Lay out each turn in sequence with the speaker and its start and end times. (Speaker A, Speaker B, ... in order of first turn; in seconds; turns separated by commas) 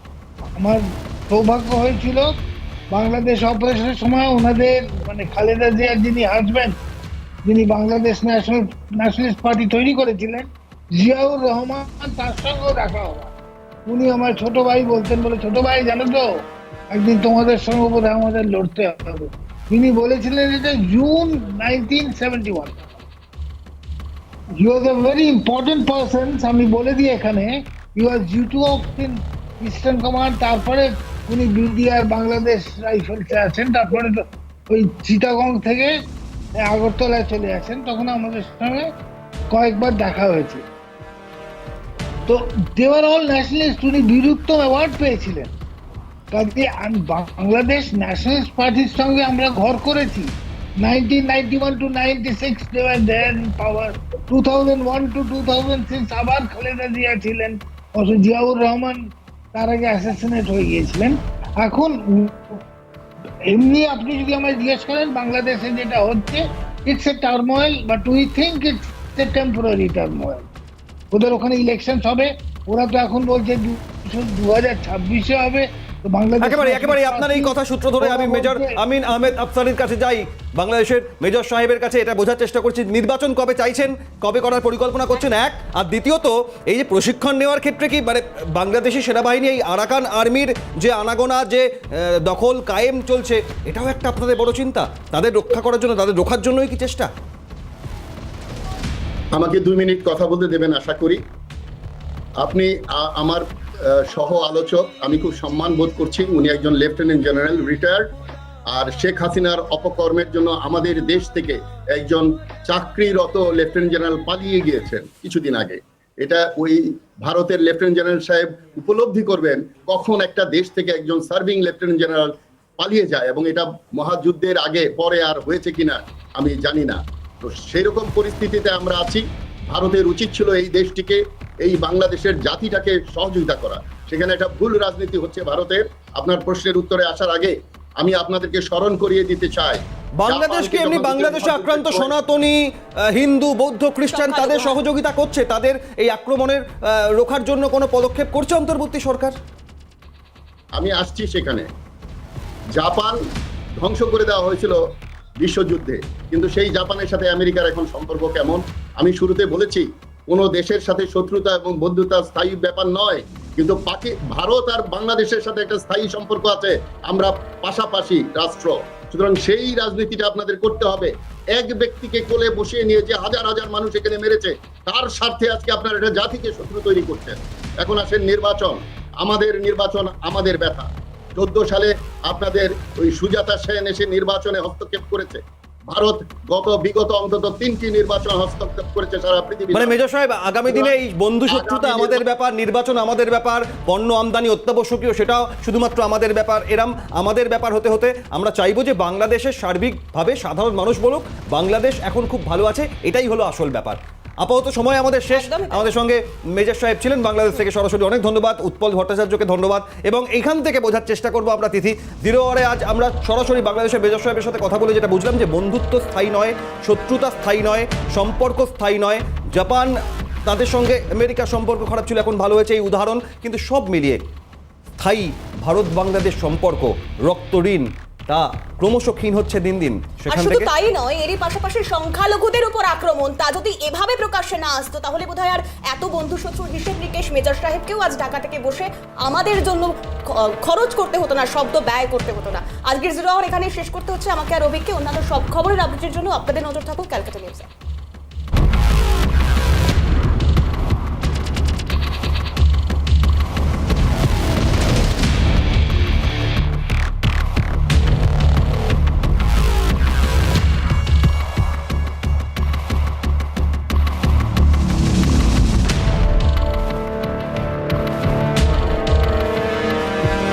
Speaker A: 0.6-2.4, Speaker A: 2.9-6.8, Speaker A: 7.5-13.3, Speaker A: 13.9-22.8, Speaker A: 24.6-36.0, Speaker A: 36.6-38.9, Speaker A: 39.5-40.6, Speaker A: 42.3-45.5, Speaker A: 46.3-62.6, Speaker A: 63.5-70.5, Speaker A: 71.1-78.8, Speaker B: 76.4-97.1, Speaker C: 99.3-101.2, Speaker C: 102.4-108.1, Speaker C: 108.7-142.2, Speaker B: 140.2-149.3, Speaker D: 144.1-144.8, Speaker C: 150.8-151.7, Speaker C: 152.8-153.2, Speaker C: 153.8-154.8, Speaker C: 155.4-190.0, Speaker B: 189.7-219.9, Speaker C: 190.7-191.0, Speaker C: 191.5-192.2, Speaker D: 205.3-205.9, Speaker B: 220.5-224.2, Speaker B: 225.0-230.7, Speaker D: 230.3-247.7